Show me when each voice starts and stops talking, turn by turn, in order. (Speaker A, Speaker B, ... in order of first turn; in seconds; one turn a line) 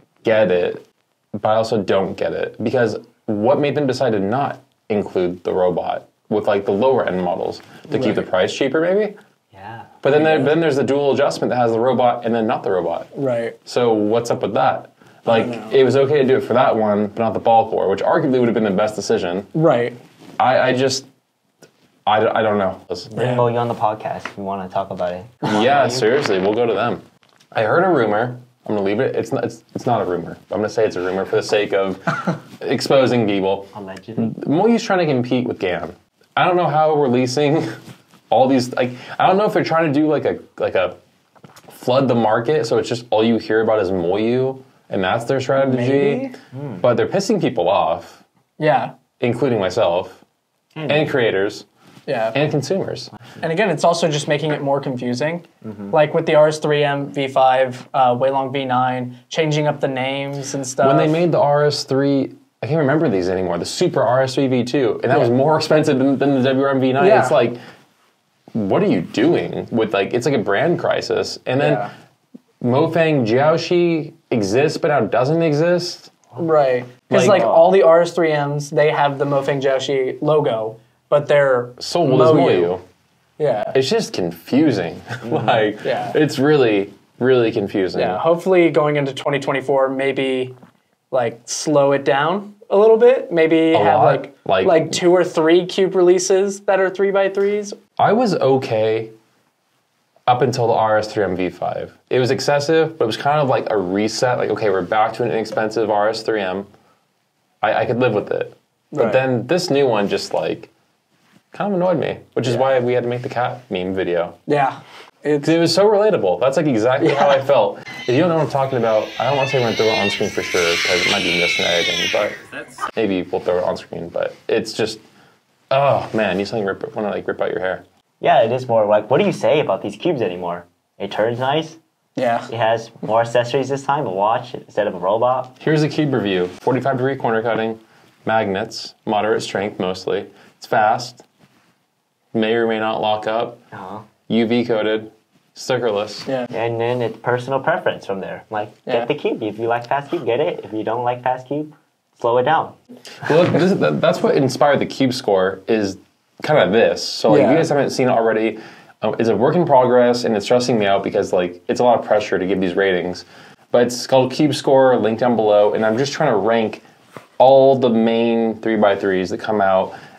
Speaker A: 0.2-9.2
Speaker B: 7.9-8.2
Speaker C: 9.5-10.5
Speaker A: 10.0-13.1
Speaker B: 13.2-13.6
Speaker A: 13.7-19.5
Speaker B: 15.3-15.8
Speaker B: 19.6-20.0
Speaker A: 20.4-21.1
Speaker A: 22.1-23.1
Speaker C: 23.1-26.1
Speaker B: 23.2-23.5
Speaker A: 25.4-37.8
Speaker C: 33.7-34.4
Speaker A: 38.3-41.0
Speaker A: 41.7-46.3
Speaker B: 45.6-46.4
Speaker C: 46.5-46.8
Speaker A: 46.8-48.2
Speaker B: 48.6-49.0
Speaker A: 49.2-50.2
Speaker C: 50.8-51.2
Speaker A: 50.9-51.7
Speaker B: 52.1-52.4
Speaker A: 52.3-53.1
Speaker B: 53.4-61.2
Speaker C: 55.6-56.0
Speaker A: 60.8-67.6
Speaker B: 67.0-67.4
Speaker A: 68.5-71.8
Speaker B: 71.6-71.9
Speaker A: 72.6-76.2
Speaker B: 76.4-82.7
Speaker A: 77.1-77.7
Speaker A: 81.8-82.8
Speaker B: 83.4-83.8
Speaker A: 83.7-88.2
Speaker C: 85.2-85.6
Speaker B: 85.8-86.2
Speaker B: 88.0-90.5
Speaker B: 91.1-97.8
Speaker A: 93.7-95.0
Speaker A: 98.0-99.1
Speaker A: 100.3-106.7
Speaker A: 107.6-110.7
Speaker B: 108.9-109.2
Speaker A: 111.5-114.4
Speaker B: 114.5-115.5
Speaker A: 115.4-122.4
Speaker B: 117.0-117.4
Speaker A: 122.9-125.0
Speaker A: 125.7-127.8
Speaker C: 128.2-131.8
Speaker B: 132.2-132.5
Speaker C: 132.5-135.6
Speaker A: 135.6-141.2
Speaker A: 142.3-143.6
Speaker C: 143.7-144.1
Speaker A: 144.3-146.3
Speaker C: 146.5-152.8
Speaker A: 153.2-166.8
Speaker B: 157.3-157.7
Speaker A: 167.4-169.9